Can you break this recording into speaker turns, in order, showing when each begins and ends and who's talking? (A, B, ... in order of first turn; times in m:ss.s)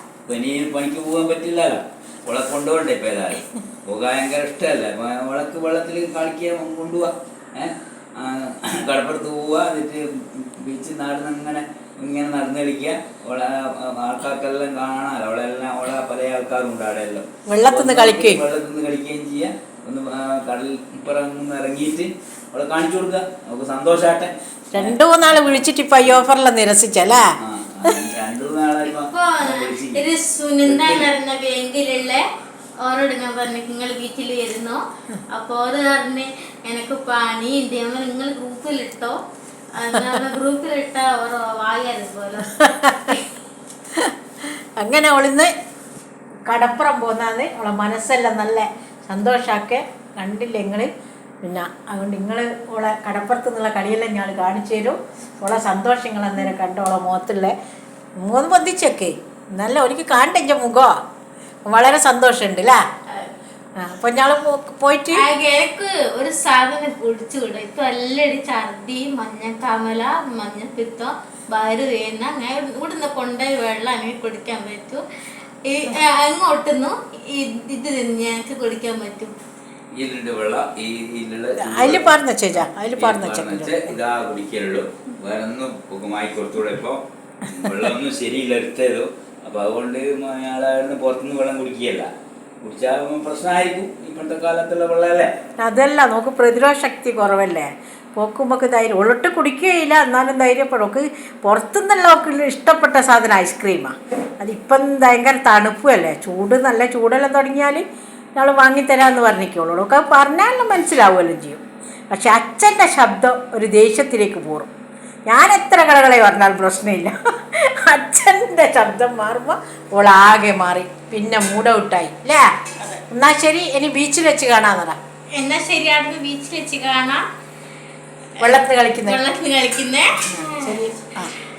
0:00.3-0:26.3 A
0:17.5-0:18.4 B
0:24.7-0:27.3 B
0:27.0-0:30.0 A
0:29.0-0:32.2 C
0:30.6-0:31.1 A
0:32.8-0:39.2 C
0:39.7-0:43.2 C
0:42.5-0:43.2 B
0:44.0-0:45.5 B
0:46.5-0:50.9 B
0:51.4-0:57.5 B
0:58.2-1:00.9 B
1:01.7-1:02.8 B
1:03.8-1:05.2 B
1:05.1-1:15.0 C
1:15.6-1:19.3 C
1:19.9-1:32.1 A
1:21.6-1:24.0 B
1:32.6-1:35.3 A
1:35.6-1:47.8 B
1:48.4-1:54.7 B
1:55.3-2:02.5 B
2:02.8-2:03.0 C
2:03.1-2:05.0 B
2:05.3-2:07.2 C
2:08.4-2:10.8 C
2:08.4-2:09.2 B
2:10.3-2:11.3 B